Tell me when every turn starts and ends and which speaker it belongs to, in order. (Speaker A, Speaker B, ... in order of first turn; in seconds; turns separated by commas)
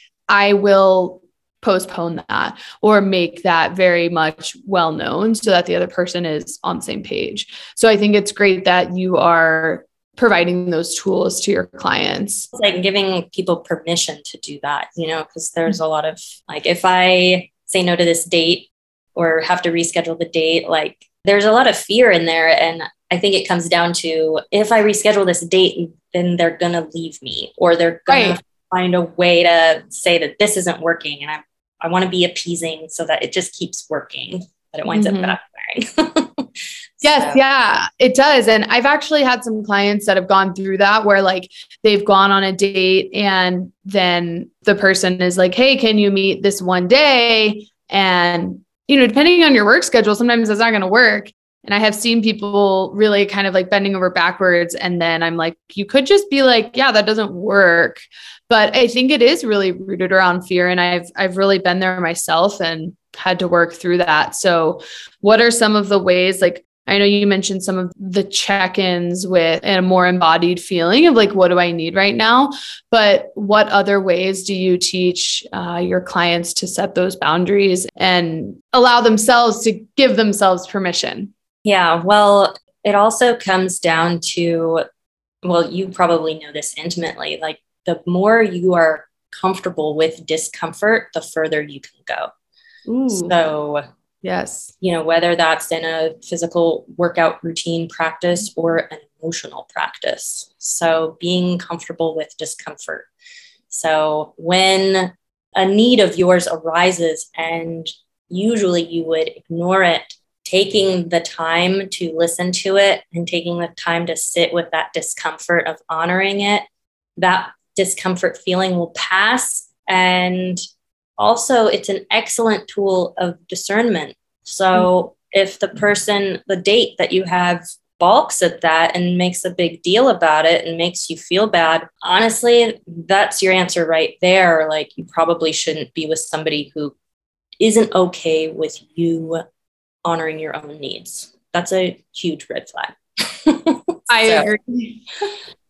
Speaker A: 0.3-12.5, Speaker B: 12.5-37.4, Speaker A: 28.1-28.4, Speaker A: 34.9-35.3, Speaker A: 37.0-81.3, Speaker B: 81.6-84.8, Speaker B: 85.4-92.3, Speaker A: 92.9-93.4, Speaker B: 93.1-93.8, Speaker A: 94.2-94.7, Speaker B: 94.8-103.1, Speaker B: 103.7-116.6, Speaker B: 117.2-120.6, Speaker B: 121.2-136.9, Speaker B: 137.6-139.4, Speaker B: 140.0-144.5, Speaker A: 144.1-145.0